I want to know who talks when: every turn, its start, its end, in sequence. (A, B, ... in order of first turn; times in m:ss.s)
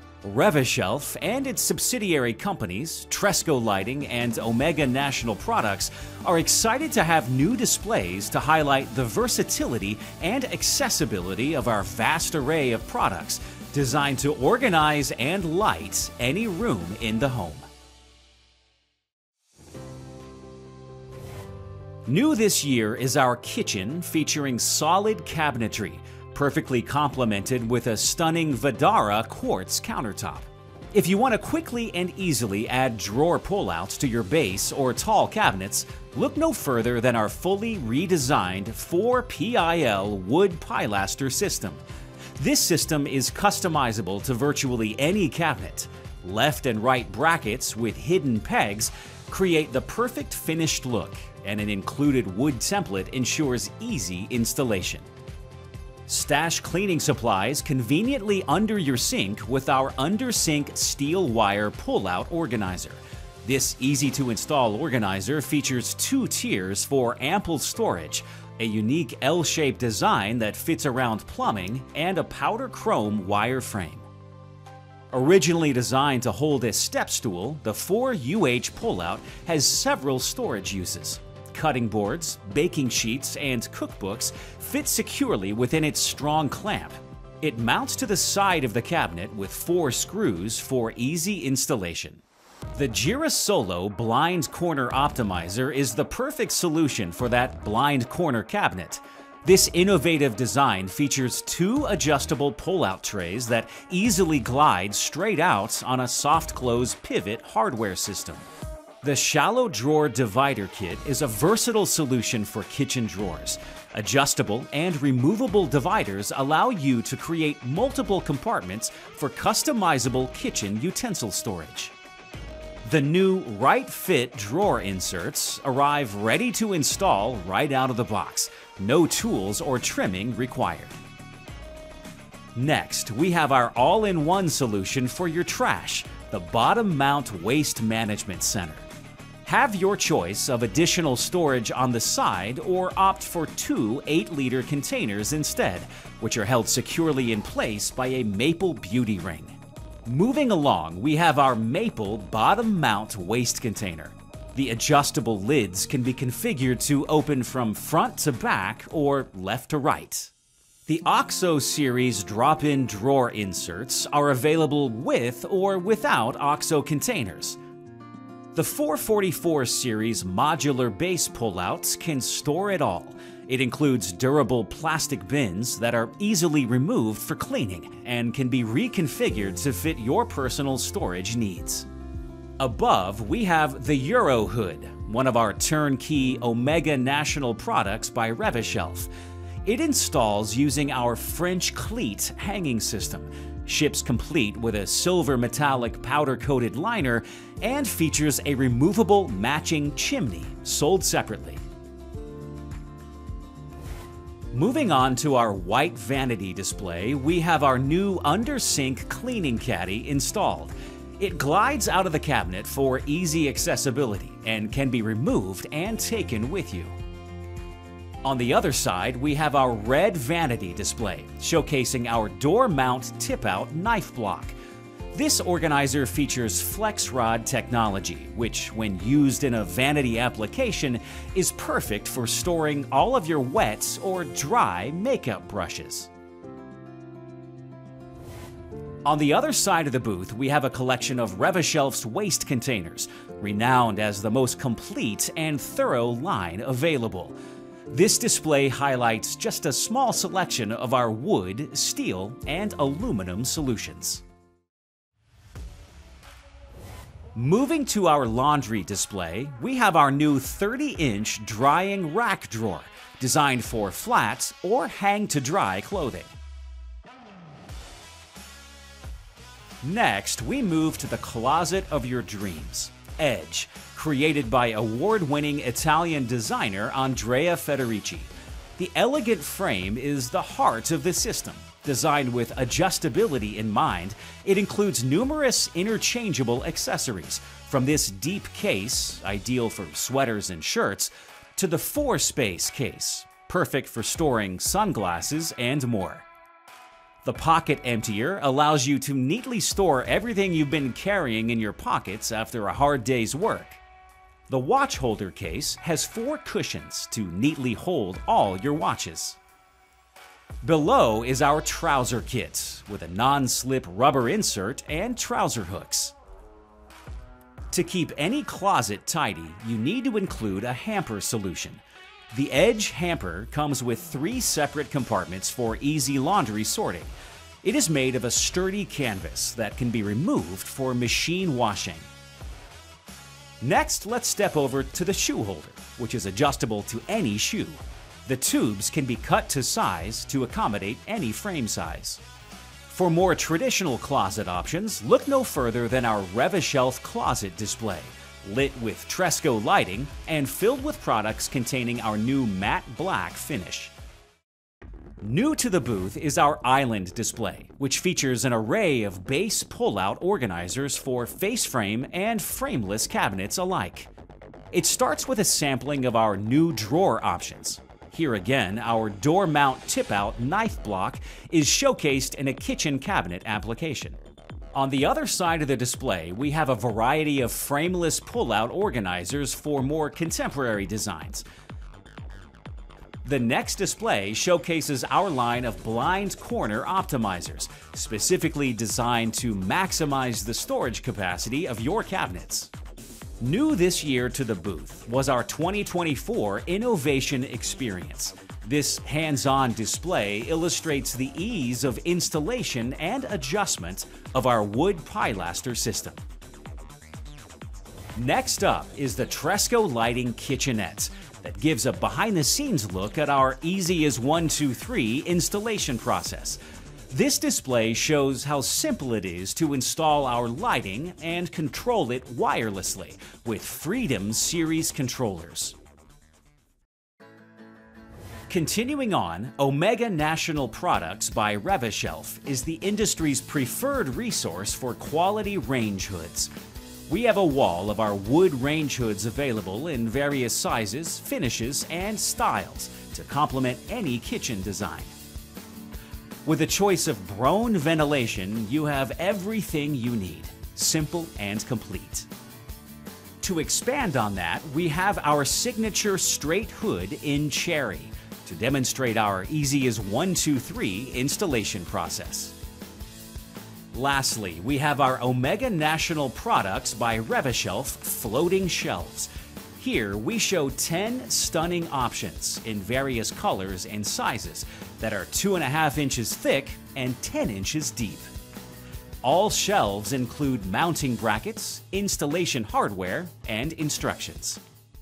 0:00.2-0:17.6 A
0:22.0-0:41.8 A
0:42.4-0:55.1 A
0:56.1-1:14.1 A
1:15.1-1:32.2 A
1:32.7-1:48.5 A
1:49.0-2:01.9 A
2:02.8-2:11.0 A
2:12.6-2:18.9 A
2:19.4-2:40.3 A
2:40.8-2:47.6 A
2:48.5-3:01.9 A
3:02.6-3:09.1 A
3:09.6-3:21.6 A
3:24.5-3:36.9 A
3:38.2-3:44.6 A
3:45.1-3:56.1 A
3:59.0-4:07.4 A
4:07.9-4:14.2 A
4:17.3-4:26.3 A
4:29.8-4:56.2 A
4:57.2-5:03.8 A
5:04.5-5:09.4 A
5:10.6-5:16.1 A
5:17.7-5:32.1 A
5:33.6-5:42.2 A
5:42.9-5:53.9 A
5:55.2-6:04.1 A
6:04.7-6:14.2 A
6:14.7-6:21.4 A
6:23.2-6:32.7 A
6:33.4-6:46.2 A
6:48.2-7:05.8 A
7:08.5-7:16.5 A
7:17.1-7:25.1 A
7:26.4-7:32.3 A
7:33.4-7:42.5 A
7:43.9-7:58.3 A
7:59.2-8:04.6 A